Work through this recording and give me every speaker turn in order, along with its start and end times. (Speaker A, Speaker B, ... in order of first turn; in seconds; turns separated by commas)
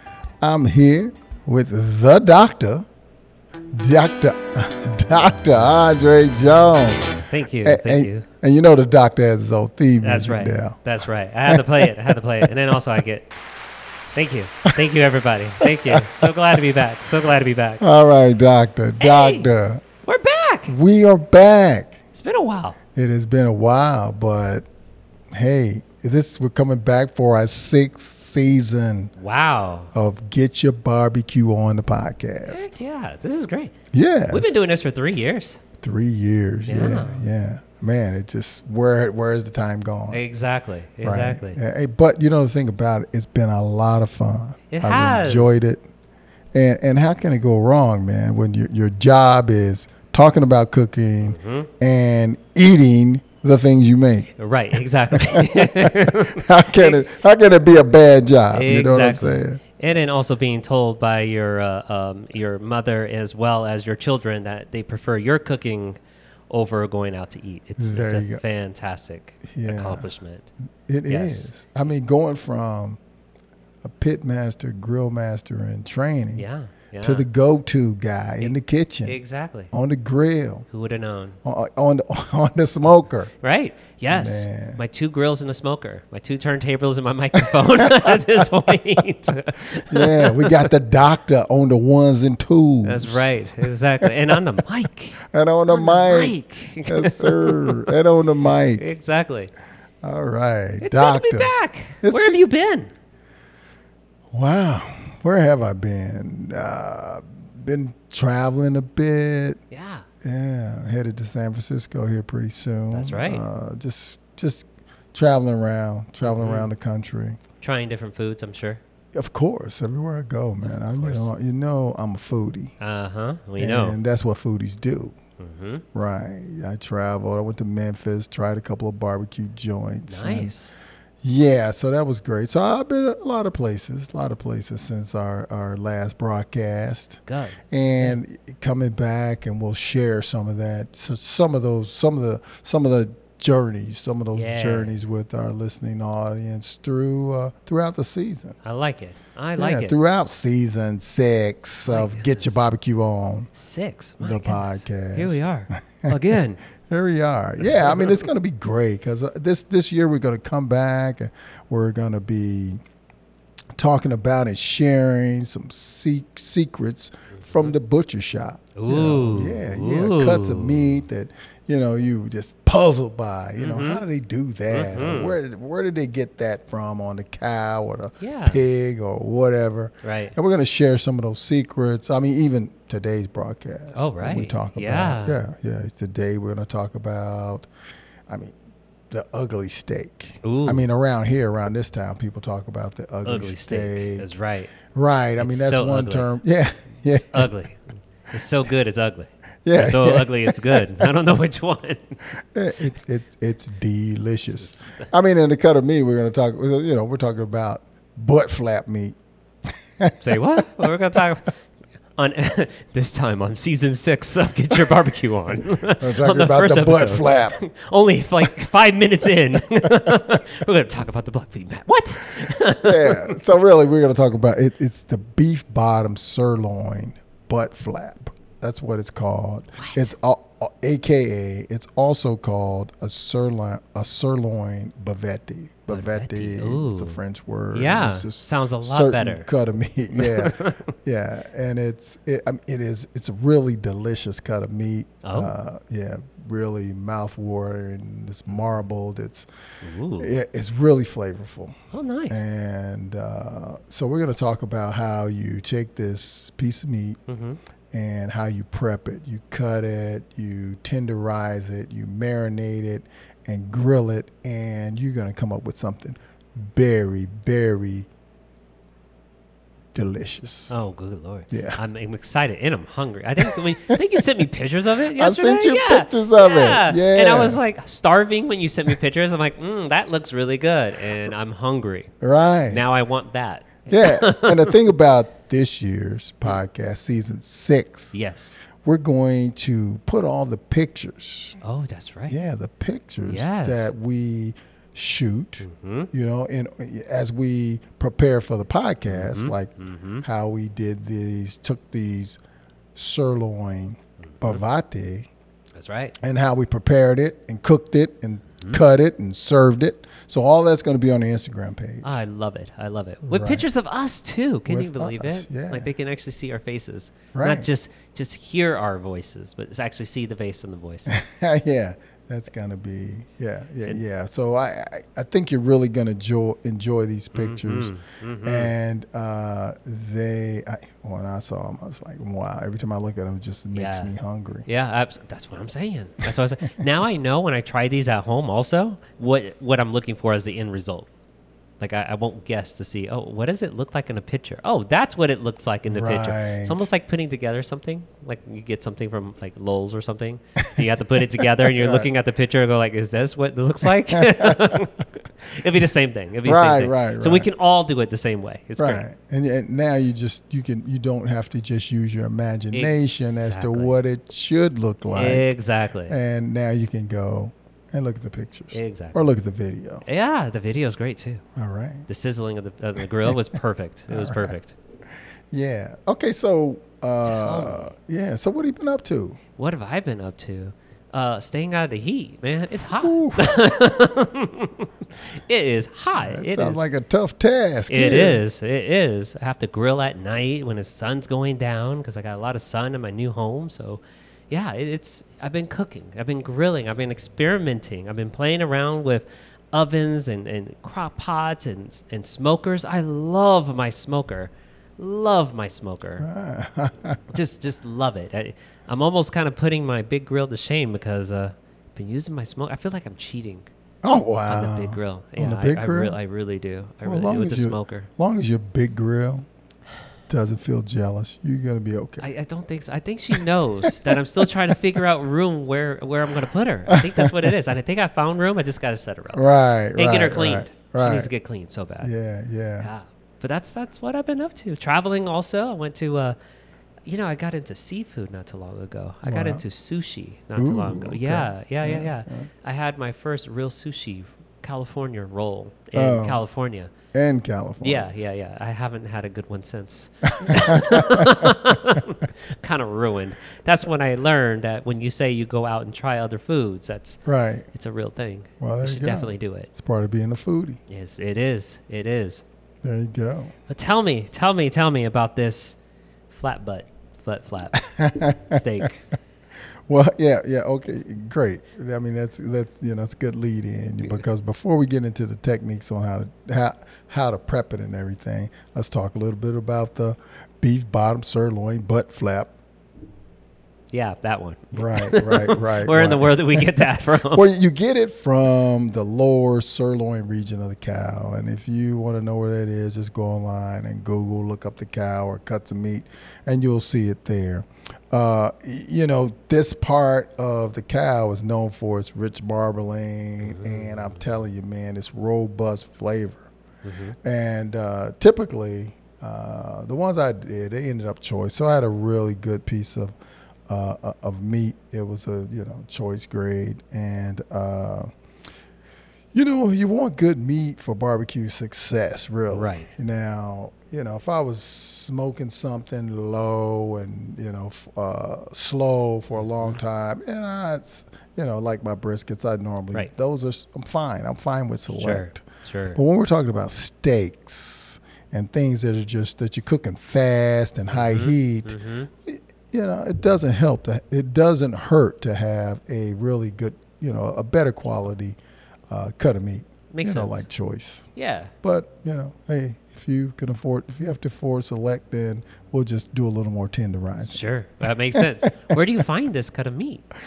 Speaker A: 0.4-2.9, Speaker A: 3.7-10.8, Speaker B: 7.3-8.3, Speaker B: 10.0-13.3, Speaker A: 11.4-12.8, Speaker B: 14.1-17.8, Speaker A: 15.6-16.6, Speaker A: 17.8-19.8, Speaker B: 19.0-19.5, Speaker B: 20.0-20.8, Speaker A: 20.7-22.0, Speaker B: 22.1-22.8, Speaker A: 22.9-24.7, Speaker A: 25.3-29.1, Speaker B: 29.2-29.9, Speaker A: 29.9-32.7, Speaker B: 32.4-33.8, Speaker A: 33.9-34.5, Speaker B: 34.3-35.6, Speaker A: 35.8-40.2, Speaker B: 36.7-37.3, Speaker B: 40.1-41.6, Speaker A: 41.0-45.8, Speaker B: 44.7-45.6, Speaker A: 46.5-54.3, Speaker B: 51.2-51.7, Speaker B: 54.4-57.1, Speaker A: 55.1-59.6, Speaker B: 58.5-66.0, Speaker B: 66.5-70.5, Speaker A: 67.8-68.4, Speaker A: 69.5-70.1, Speaker A: 70.9-73.0, Speaker B: 71.1-71.5, Speaker A: 73.8-76.5, Speaker B: 76.4-77.3, Speaker A: 77.0-79.2, Speaker B: 79.0-79.7, Speaker A: 79.7-80.7, Speaker B: 80.7-81.4, Speaker A: 81.4-83.3, Speaker B: 83.4-90.7, Speaker A: 84.1-84.8, Speaker A: 87.4-88.7, Speaker A: 89.9-94.4, Speaker B: 92.8-97.9, Speaker A: 95.2-98.9, Speaker B: 98.7-99.5, Speaker A: 100.0-102.4, Speaker B: 100.8-102.9, Speaker A: 104.3-109.6, Speaker B: 109.7-110.1, Speaker A: 110.2-117.4, Speaker B: 112.9-113.5, Speaker B: 116.2-116.7, Speaker B: 117.6-118.8, Speaker A: 119.1-122.7, Speaker B: 120.6-121.3, Speaker B: 122.8-124.0, Speaker A: 123.6-125.2, Speaker B: 125.4-125.8, Speaker A: 125.9-130.5, Speaker B: 130.1-130.7, Speaker A: 131.2-148.6, Speaker B: 137.3-138.2, Speaker B: 144.3-145.0, Speaker B: 148.6-150.0, Speaker A: 149.6-153.5, Speaker B: 151.9-152.6, Speaker B: 153.5-156.6, Speaker A: 154.2-162.8, Speaker B: 157.6-158.3, Speaker A: 163.8-187.7, Speaker B: 167.4-167.7, Speaker B: 168.8-171.0, Speaker B: 173.6-174.1, Speaker B: 174.7-175.4, Speaker B: 178.2-178.6, Speaker B: 180.0-180.4, Speaker B: 183.9-185.4, Speaker A: 188.3-188.6, Speaker A: 189.1-194.3, Speaker B: 190.4-190.9, Speaker B: 193.2-194.8, Speaker A: 194.9-197.5, Speaker B: 195.4-196.3, Speaker B: 197.1-202.2, Speaker A: 199.7-201.1, Speaker A: 202.5-209.2, Speaker B: 204.6-205.1, Speaker A: 209.7-210.9, Speaker B: 210.2-211.6, Speaker B: 212.2-223.4, Speaker A: 216.0-217.6, Speaker A: 219.8-220.1, Speaker A: 222.8-249.5, Speaker B: 229.8-230.1, Speaker B: 235.9-237.2, Speaker B: 237.7-239.5, Speaker B: 240.2-240.9, Speaker B: 245.2-245.5, Speaker B: 249.8-250.3, Speaker A: 250.2-251.8, Speaker B: 251.9-252.4, Speaker A: 252.3-257.2, Speaker B: 257.3-257.6, Speaker A: 257.9-268.1, Speaker A: 269.9-270.7, Speaker B: 270.7-282.1, Speaker A: 271.5-271.8, Speaker A: 273.4-274.0, Speaker A: 275.1-277.6, Speaker A: 282.2-282.9, Speaker B: 282.7-284.8, Speaker A: 283.9-288.1, Speaker B: 288.1-288.6, Speaker A: 288.8-291.6, Speaker B: 291.6-292.4, Speaker A: 292.3-299.7, Speaker B: 293.2-293.9, Speaker B: 295.6-296.1, Speaker B: 299.1-300.2, Speaker A: 300.2-302.4, Speaker A: 302.9-305.3, Speaker B: 304.3-304.6, Speaker B: 305.8-306.2, Speaker A: 306.2-312.2, Speaker B: 312.0-321.2, Speaker A: 313.3-313.7, Speaker A: 314.7-315.9, Speaker A: 317.3-317.7, Speaker A: 321.1-327.9, Speaker B: 327.3-328.7, Speaker A: 328.4-334.7, Speaker B: 333.7-334.1, Speaker B: 334.7-341.1, Speaker B: 341.8-359.1, Speaker A: 345.9-346.9, Speaker A: 351.6-352.1, Speaker A: 354.1-354.8, Speaker A: 356.4-357.5, Speaker A: 358.8-365.5, Speaker B: 362.7-364.0, Speaker B: 365.1-366.2, Speaker A: 366.1-370.1, Speaker B: 368.7-369.2, Speaker B: 370.1-371.4, Speaker A: 371.6-372.1, Speaker B: 372.1-374.8, Speaker A: 374.1-374.6, Speaker A: 375.5-379.4, Speaker B: 377.2-377.9, Speaker B: 379.6-386.8, Speaker A: 383.0-383.8, Speaker A: 386.2-388.4, Speaker B: 387.9-406.3, Speaker A: 406.2-407.2, Speaker B: 407.3-413.7, Speaker A: 414.0-416.2, Speaker B: 414.5-418.1, Speaker A: 417.0-419.5, Speaker A: 420.3-422.3, Speaker B: 422.2-432.1, Speaker A: 423.3-424.8, Speaker A: 426.9-427.5, Speaker A: 429.3-431.3, Speaker A: 432.0-432.9, Speaker B: 432.8-436.4, Speaker B: 437.1-446.9, Speaker A: 439.2-439.6, Speaker A: 440.6-442.5, Speaker A: 445.9-446.4, Speaker A: 447.1-448.1, Speaker B: 447.8-457.2, Speaker A: 450.2-452.0, Speaker A: 457.2-457.7, Speaker B: 457.7-459.7, Speaker A: 458.6-460.8, Speaker B: 460.9-462.4, Speaker A: 462.8-463.5, Speaker B: 463.7-465.8, Speaker B: 466.3-469.0, Speaker A: 467.8-468.9, Speaker A: 469.9-482.5, Speaker B: 483.9-487.5, Speaker A: 484.7-506.5, Speaker B: 503.4-504.2, Speaker B: 506.8-507.2, Speaker A: 507.2-513.1, Speaker A: 513.7-518.1, Speaker A: 519.3-548.4, Speaker B: 522.5-522.9, Speaker B: 534.9-536.0, Speaker B: 540.9-542.1, Speaker A: 548.9-551.1, Speaker B: 549.9-550.5, Speaker B: 551.2-551.5, Speaker A: 551.6-558.8, Speaker B: 557.3-560.1